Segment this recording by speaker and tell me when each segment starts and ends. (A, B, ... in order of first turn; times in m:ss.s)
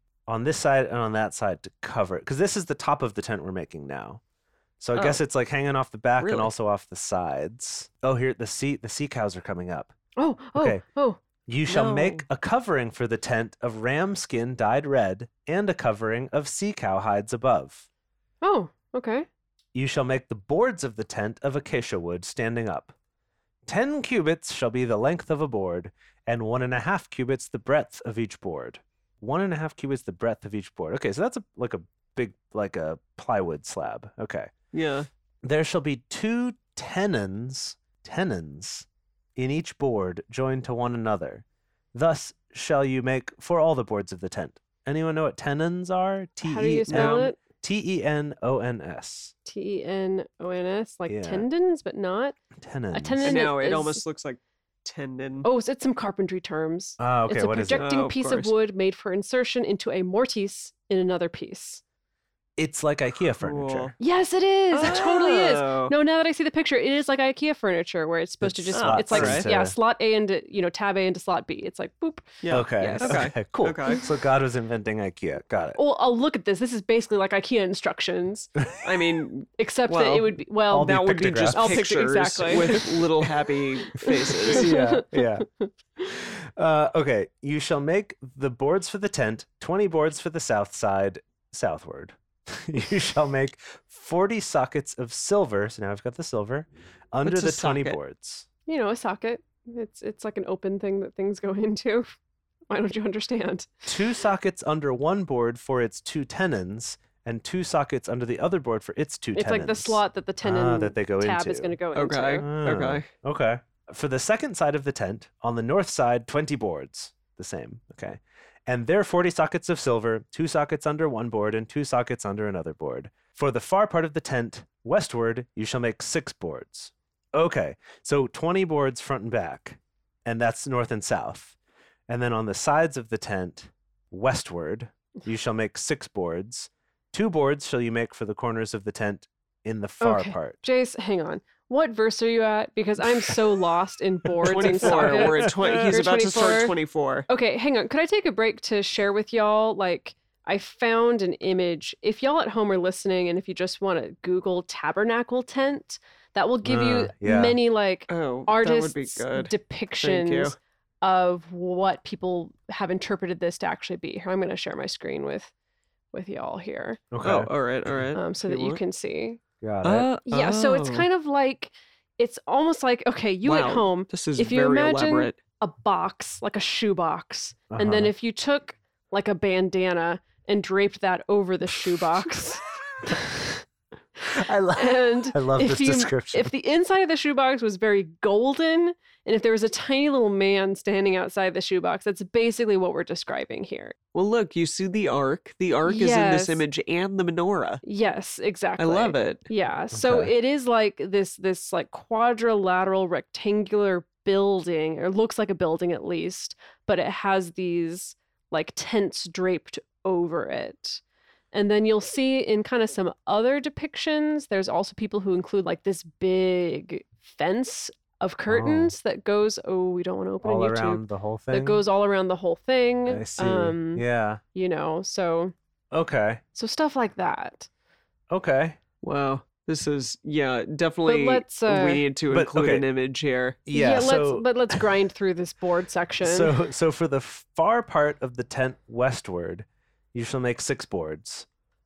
0:00.3-0:04.2 A
0:04.8-0:09.9 A
0:04.9-0:05.2 B
0:06.2-0:06.5 B
0:10.2-0:11.2 C
0:10.6-0:10.8 A
0:11.4-0:17.9 A
0:11.7-0:12.2 B
0:18.4-0:19.3 C
0:19.7-0:22.9 A
0:23.6-0:34.5 A
0:34.7-0:35.1 B
0:35.4-0:49.3 A
0:46.4-0:47.4 C
0:46.9-0:47.3 B
0:49.4-0:52.4 C
0:51.1-0:51.4 A
0:52.6-0:53.4 A
0:52.9-0:54.0 C
0:53.2-0:55.5 B
0:55.4-1:01.8 C
0:57.0-0:57.9 A
0:57.8-0:58.5 B
1:02.6-1:03.9 A
1:03.4-1:03.9 B
1:04.0-1:13.2 C
1:04.7-1:05.9 B
1:08.4-1:09.8 A
1:08.7-1:09.5 B
1:12.4-1:14.0 B
1:12.5-1:15.8 A
1:15.8-1:18.5 C
1:18.8-1:24.7 B
1:19.6-1:22.9 C
1:20.7-1:21.9 A
1:22.5-1:23.3 A
1:24.0-1:25.7 C
1:24.5-1:25.4 A
1:26.0-1:38.5 A
1:37.2-1:38.0 B
1:38.7-1:42.1 C
1:42.7-1:43.9 C
1:43.9-1:51.8 A
1:49.3-1:52.4 C
1:51.9-1:53.1 B
1:52.4-2:11.6 A
2:12.1-2:20.6 A
2:20.0-2:26.8 C
2:24.4-2:26.0 A
2:24.4-2:27.3 B
2:27.3-2:45.5 C
2:36.6-2:37.6 A
2:38.1-2:40.6 B
2:46.1-2:47.0 C
2:47.1-2:48.0 A
2:47.2-2:48.8 B
2:48.1-2:49.4 C
2:49.6-2:50.1 A
2:49.8-2:51.1 B
2:50.2-3:03.6 C
2:53.4-2:55.4 B
2:57.7-2:58.1 A
3:04.3-3:06.5 A
3:04.7-3:13.9 C
3:14.1-3:17.8 B
3:15.8-3:16.6 C
3:17.8-3:31.0 C
3:18.8-3:19.4 B
3:19.9-3:20.3 A
3:31.5-3:45.5 C
3:38.5-3:38.9 A
3:40.4-3:41.8 A
3:43.0-3:44.4 A
3:45.9-3:46.4 A
3:46.5-3:47.7 C
3:48.3-3:48.8 A
3:49.0-3:53.6 B
3:51.0-3:52.0 C
3:52.3-3:52.8 A
3:53.6-3:54.8 A
3:53.7-3:56.6 C
3:56.2-4:01.5 A